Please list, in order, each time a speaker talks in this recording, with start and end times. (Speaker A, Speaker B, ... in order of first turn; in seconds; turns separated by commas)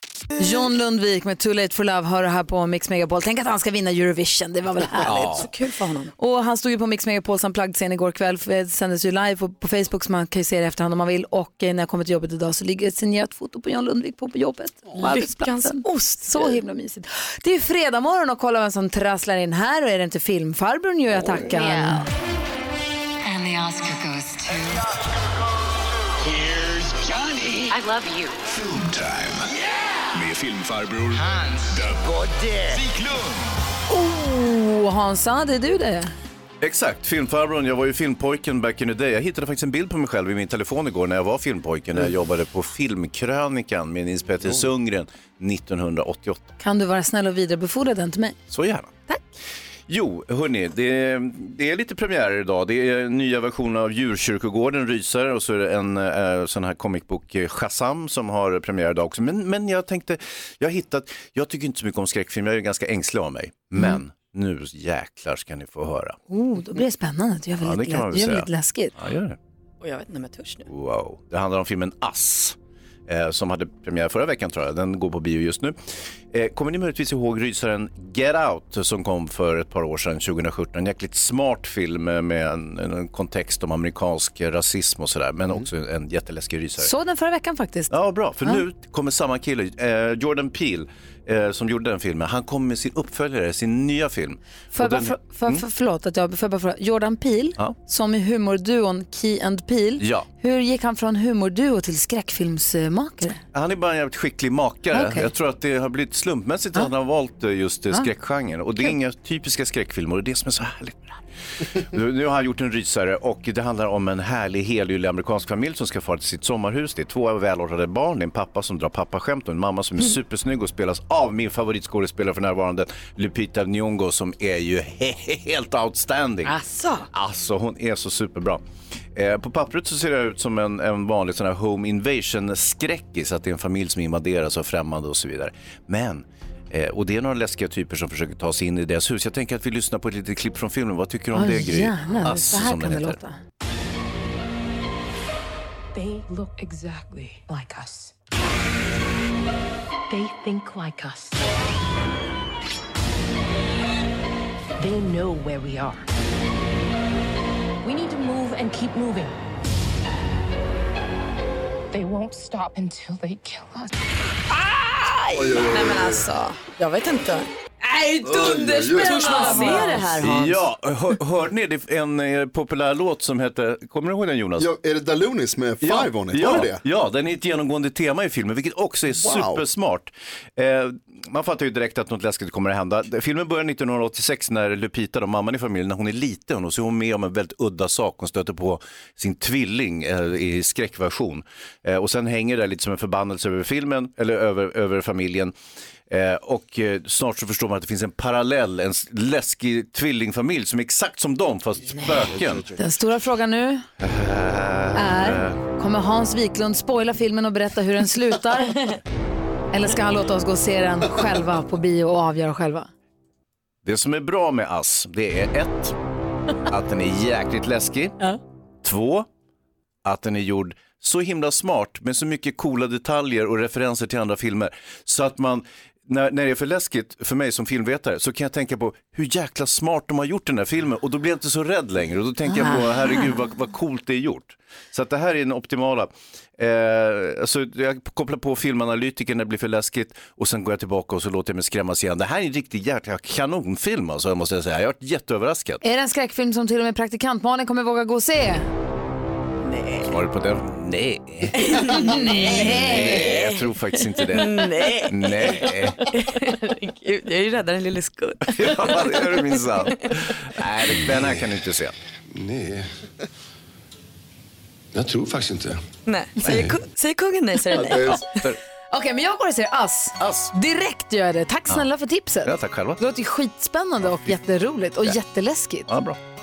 Speaker A: 0.4-5.5, Speaker B: 5.1-6.1, Speaker C: 5.1-5.5, Speaker A: 6.2-22.1, Speaker B: 15.0-16.6, Speaker D: 21.5-22.0, Speaker D: 23.2-24.8, Speaker E: 26.2-27.8, Speaker D: 27.7-28.4, Speaker E: 28.4-33.6, Speaker A: 33.9-36.1, Speaker C: 36.6-46.5, Speaker A: 46.6-48.4, Speaker C: 48.5-48.9, Speaker C: 49.9-66.2, Speaker A: 66.3-68.9, Speaker C: 67.6-69.4, Speaker B: 69.8-70.7, Speaker C: 70.7-72.6, Speaker C: 73.1-75.8, Speaker C: 76.3-86.9, Speaker A: 86.8-87.9, Speaker C: 87.9-95.6, Speaker A: 94.8-103.4, Speaker C: 100.0-100.3, Speaker C: 103.5-111.2, Speaker A: 104.9-105.3, Speaker C: 111.8-126.5, Speaker B: 126.5-127.0, Speaker C: 127.1-128.6, Speaker C: 129.2-143.2, Speaker A: 141.3-143.4, Speaker F: 145.9-148.1, Speaker F: 150.1-151.5, Speaker F: 154.8-156.1, Speaker F: 157.8-159.3, Speaker F: 161.9-163.9, Speaker B: 164.9-167.5, Speaker G: 165.3-166.2, Speaker A: 167.9-170.1, Speaker G: 168.3-170.1, Speaker B: 169.0-170.6, Speaker C: 170.2-174.7, Speaker G: 174.6-176.8, Speaker C: 175.8-195.5, Speaker G: 179.2-179.6, Speaker C: 196.1-202.7, Speaker A: 202.8-203.8, Speaker C: 204.0-205.6, Speaker A: 204.9-208.9, Speaker A: 209.7-212.9, Speaker C: 213.8-215.9, Speaker C: 216.7-218.2, Speaker C: 218.8-219.3, Speaker C: 220.1-245.8, Speaker A: 245.8-248.7, Speaker B: 249.7-250.0, Speaker C: 250.1-256.1, Speaker B: 251.6-253.7, Speaker A: 251.8-253.1, Speaker B: 254.2-259.4, Speaker C: 258.5-261.9, Speaker E: 262.3-262.9, Speaker E: 264.9-265.8, Speaker B: 266.1-268.3, Speaker E: 266.5-266.8, Speaker C: 267.7-268.6, Speaker A: 268.9-275.9, Speaker C: 270.2-270.5, Speaker C: 272.4-273.0, Speaker C: 275.9-276.2